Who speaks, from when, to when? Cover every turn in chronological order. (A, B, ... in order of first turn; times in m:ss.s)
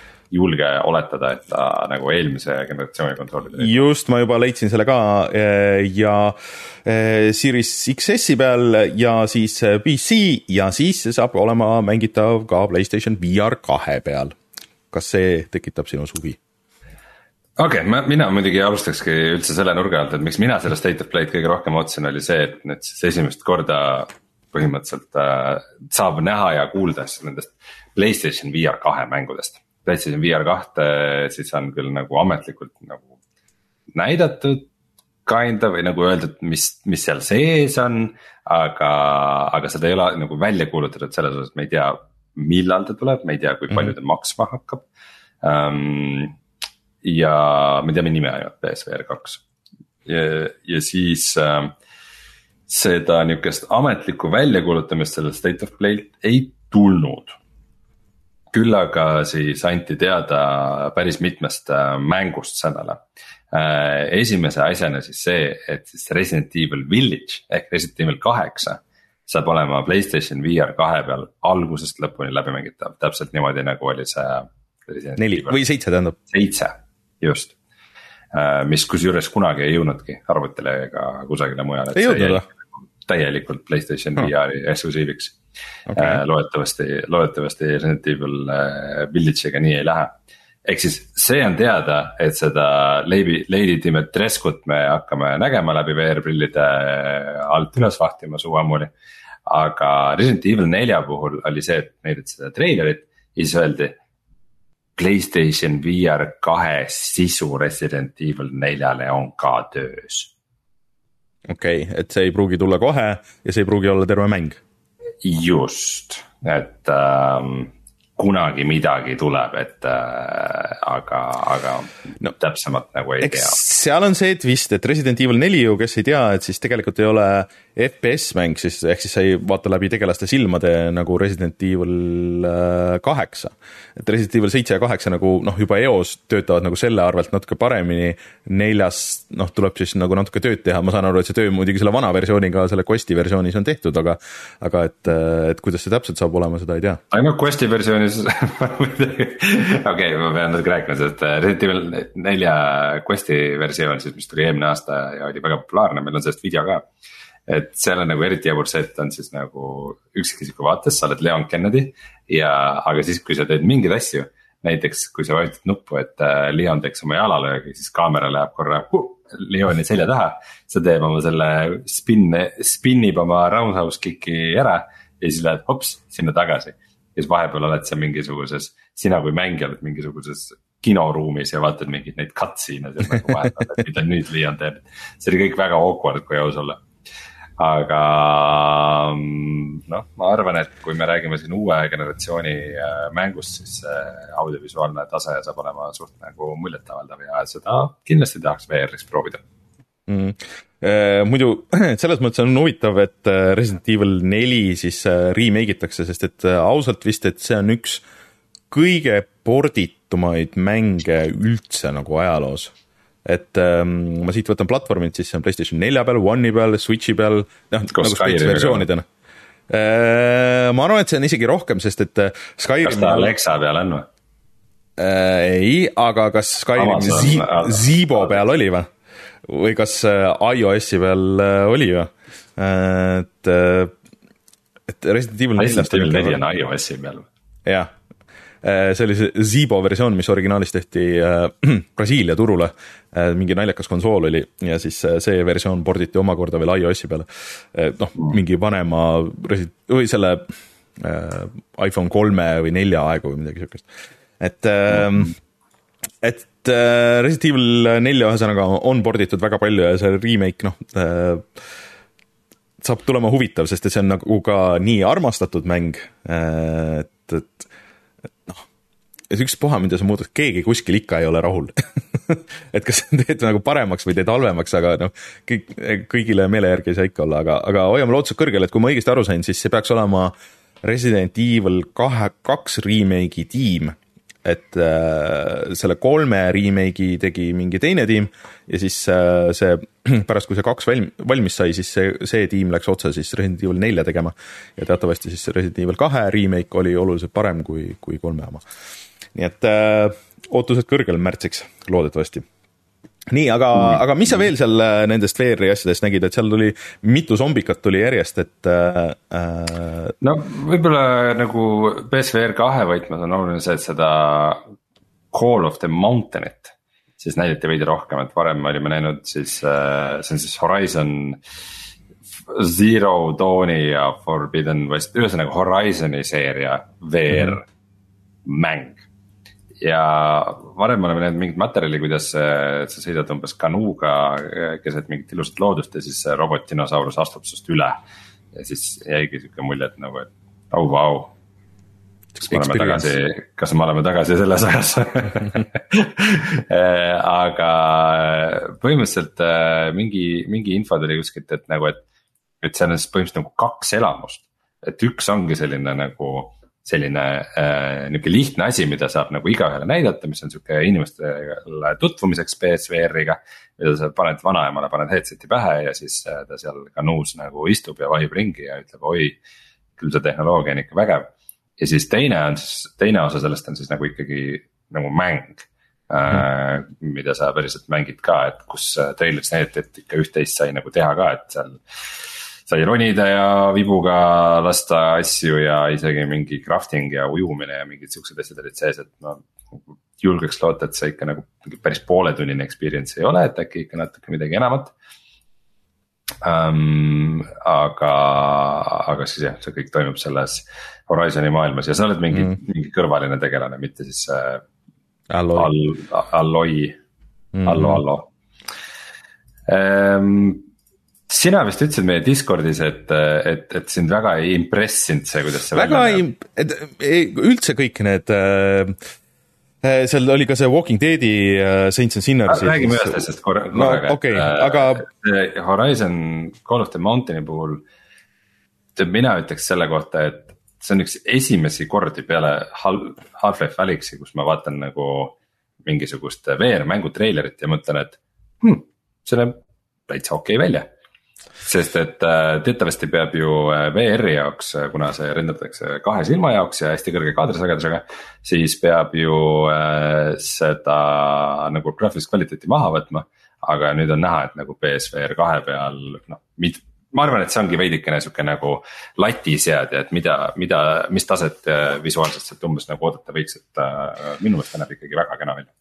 0:00.3-0:03.8 A
0:03.6-0:14.4 B
0:14.9-0:16.4 B
0:17.6-0:33.1 A
0:33.9-0:34.7 A
0:35.2-0:44.8 A
0:45.4-0:46.3 A
0:47.0-0:49.4 A
0:50.1-0:51.7 A
0:52.7-0:57.4 A
0:58.5-1:15.6 A
1:15.2-1:16.2 B
1:16.3-1:17.6 A
1:18.3-1:25.4 A
1:21.9-1:22.4 B
1:25.9-1:26.2 B
1:25.9-1:38.9 A
1:39.4-1:44.0 A
1:45.0-1:50.3 A
1:51.5-1:54.6 B
1:55.2-2:03.6 A
2:03.2-2:27.0 B
2:27.1-2:36.8 A
2:37.5-3:06.8 A
3:07.6-3:19.4 A
3:20.1-3:28.0 B
3:28.7-3:32.7 B
3:33.2-3:39.1 B
3:37.9-3:38.9 A
3:39.7-3:43.3 B
3:42.8-3:44.1 A
3:45.0-3:48.9 B
3:46.8-3:48.4 A
3:49.4-3:53.9 B
3:54.9-3:56.4 B
3:55.6-3:57.3 A
3:57.7-3:57.9 B
3:58.6-4:13.9 B
4:14.4-4:15.3 B
4:16.2-4:21.5 B
4:22.8-4:27.7 B
4:29.3-4:58.6 B
4:59.3-5:02.4 B
5:03.3-5:10.1 B
5:10.2-5:14.6 A
5:15.3-5:21.4 A
5:22.5-5:27.7 A
5:28.4-5:29.0 A
5:29.8-5:38.0 A
5:38.5-5:41.3 A
5:42.4-5:52.0 A
5:42.4-5:43.2 B
5:52.6-6:09.4 A
6:10.0-6:21.8 A
6:22.7-6:29.4 A
6:30.2-6:34.9 A
6:36.4-6:44.6 A
6:45.3-6:45.7 B
6:45.6-6:47.0 A
6:47.6-6:48.0 B
6:47.6-6:48.3 A
6:49.7-6:50.7 A
6:51.3-6:56.2 A
6:55.7-6:59.0 B
6:59.8-7:05.0 B
7:02.5-7:07.8 A
7:09.0-7:20.9 A
7:21.6-7:45.7 A